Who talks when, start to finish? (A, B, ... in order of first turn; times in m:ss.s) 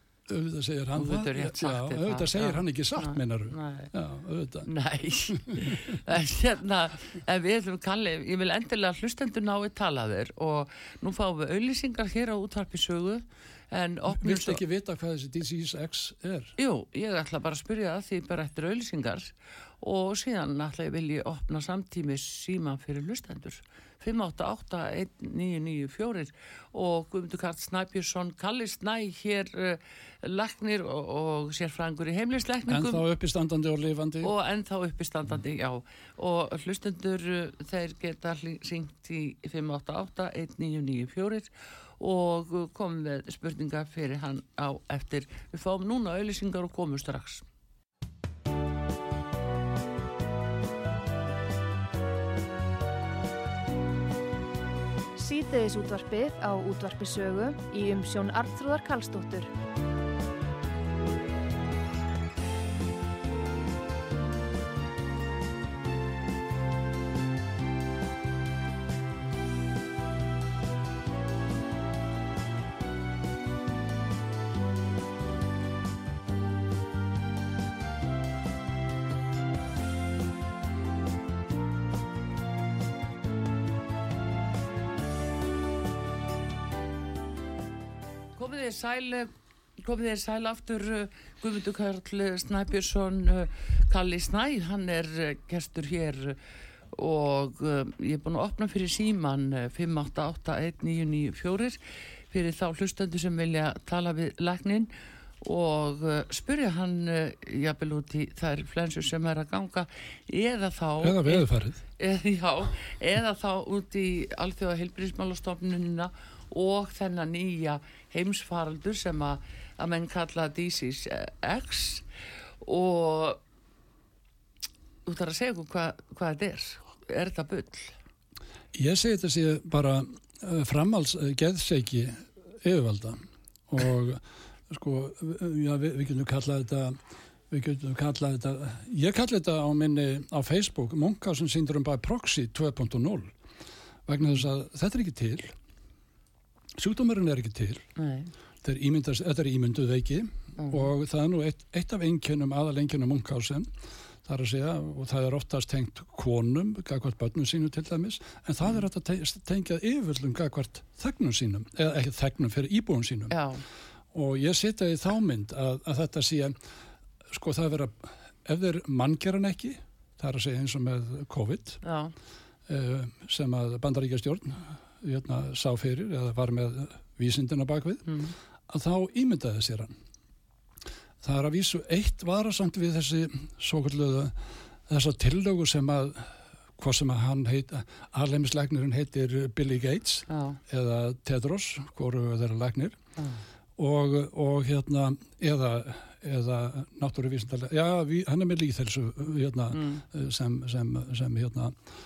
0:00.3-0:04.7 A
0:01.0-0:03.9 B
0:04.6-0:14.6 B
0:05.3-0:06.0 A
0:14.1-0:16.6 A
0:16.6-0:33.0 B
0:32.7-0:34.3 A
0:34.2-0:47.4 B
0:55.2-0:59.5 C
1:28.4-1:36.4 B
1:36.9-1:41.8 B
1:42.3-2:02.1 B
1:51.0-1:51.8 A
2:02.6-2:03.4 B
2:05.0-2:07.9 B
2:08.7-2:17.0 A
2:17.5-2:23.3 A
2:24.1-2:25.5 A
2:26.8-2:27.8 A
2:28.0-2:28.3 B
2:28.6-2:33.7 A
2:30.6-2:30.9 B
2:34.2-2:43.4 A
2:43.3-2:43.6 B
2:44.1-2:46.6 A
2:47.3-2:51.8 A
2:51.8-2:52.1 B
2:52.7-2:59.9 A
2:58.0-2:58.3 B
3:01.2-3:13.0 A
3:10.3-3:10.6 B
3:13.2-3:13.4 B
3:13.8-3:21.8 A
3:19.7-3:20.0 B